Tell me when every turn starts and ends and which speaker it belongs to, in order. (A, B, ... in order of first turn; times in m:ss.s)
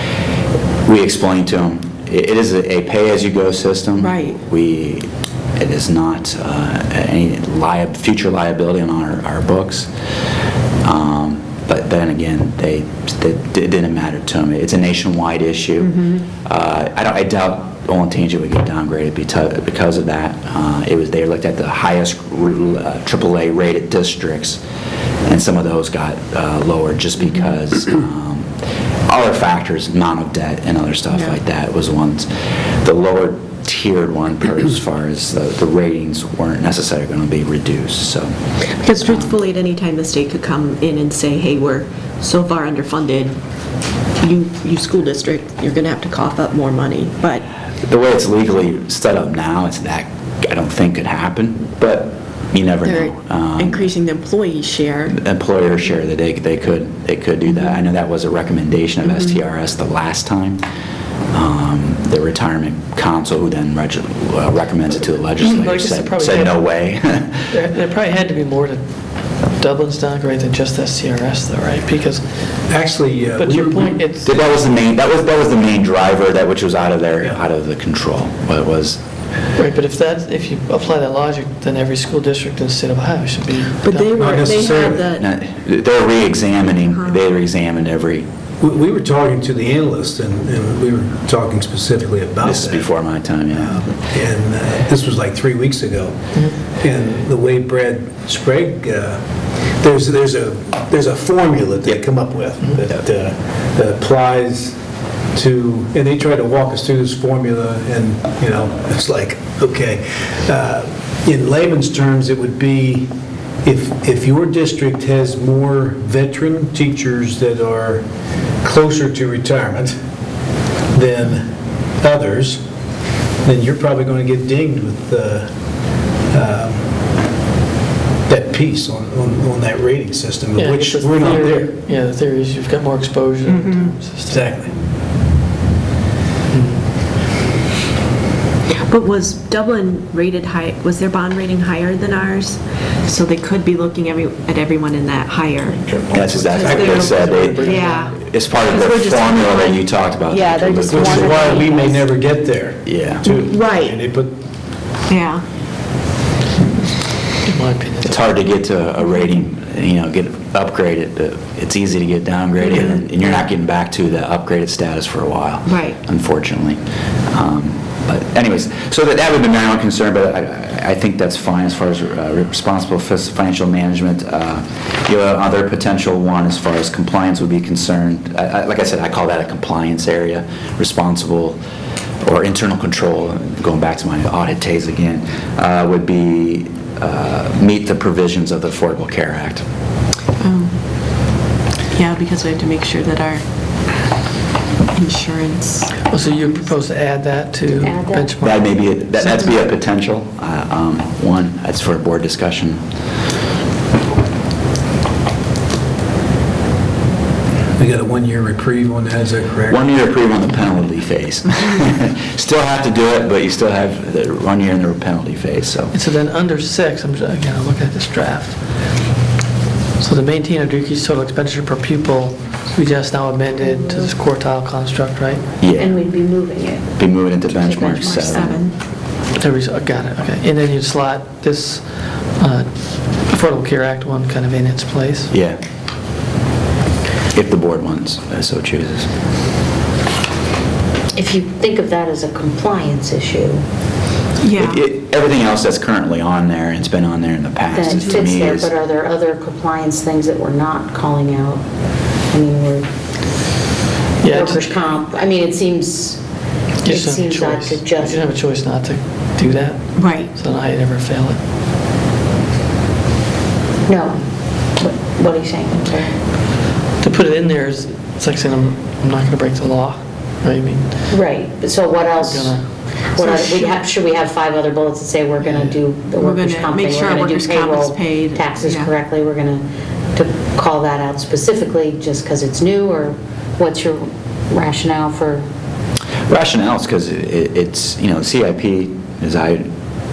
0:00.8-0:09.9 A
0:04.0-0:04.4 B
0:10.8-0:24.6 A
0:15.9-0:16.2 B
0:25.3-0:28.5 A
0:29.1-0:32.3 A
0:31.1-0:31.4 B
0:32.8-0:38.4 A
0:38.8-0:43.4 B
0:39.0-0:39.4 A
0:44.2-0:47.4 B
0:47.8-0:53.9 A
0:52.8-0:55.2 B
0:55.1-1:00.6 A
1:01.3-1:07.4 A
1:05.4-1:06.6 C
1:07.5-1:08.9 C
1:09.4-1:12.4 C
1:12.7-1:14.0 D
1:13.3-1:14.6 C
1:14.2-1:19.0 A
1:19.6-1:24.9 C
1:23.8-1:25.2 B
1:24.2-1:25.0 D
1:25.1-1:28.3 A
1:26.8-1:27.2 B
1:28.6-1:32.9 D
1:32.4-1:33.8 A
1:33.5-1:36.1 D
1:36.8-1:39.2 D
1:39.8-1:44.8 D
1:45.3-1:53.1 D
1:53.6-1:58.0 D
1:58.6-1:59.9 D
2:00.9-2:02.6 D
2:03.4-2:05.5 D
2:06.3-2:06.9 D
2:08.3-2:11.7 D
2:10.6-2:14.6 C
2:13.6-2:13.9 B
2:14.3-2:14.7 D
2:16.5-2:16.8 C
2:18.9-2:25.8 B
2:25.9-2:27.7 D
2:26.1-2:27.7 A
2:26.4-2:31.9 B
2:26.6-2:28.1 C
2:28.3-2:31.7 A
2:30.8-2:34.3 D
2:32.8-2:33.4 A
2:33.2-2:34.0 B
2:35.1-2:35.4 B
2:37.4-2:38.3 C
2:38.1-2:46.8 A
2:42.6-2:43.0 B
2:45.7-2:46.0 B
2:47.3-3:01.6 A
3:02.2-3:09.6 A
3:10.4-3:10.8 B
3:11.9-3:13.4 B
3:14.9-3:16.0 B
3:16.0-3:19.4 C
3:17.8-3:18.3 E
3:18.4-3:22.8 A
3:27.8-3:29.9 D
3:29.7-3:35.9 A
3:35.9-3:38.7 C
3:40.0-3:45.5 C
3:43.6-3:44.1 E
3:45.6-3:46.0 A
3:45.8-3:46.9 E
3:47.0-3:48.6 A
3:47.6-3:48.5 E
3:47.7-3:48.7 B
3:49.4-3:55.3 C
3:55.3-3:55.6 A
3:57.3-3:59.1 A
4:01.1-4:03.6 E
4:04.4-4:04.8 B
4:04.6-4:08.7 A
4:07.7-4:11.6 E
4:07.9-4:08.2 B
4:12.3-4:12.9 E
4:14.2-4:14.7 C
4:14.2-4:16.2 E
4:16.8-4:21.4 C
4:16.8-4:18.3 E
4:20.0-4:20.3 B
4:23.9-4:26.1 E
4:27.0-4:30.9 C
4:31.1-4:32.6 E
4:32.2-4:32.7 C
4:33.1-4:45.5 E
4:33.2-4:33.8 B
4:35.4-4:35.8 C
4:36.2-4:38.9 B
4:46.3-4:49.7 A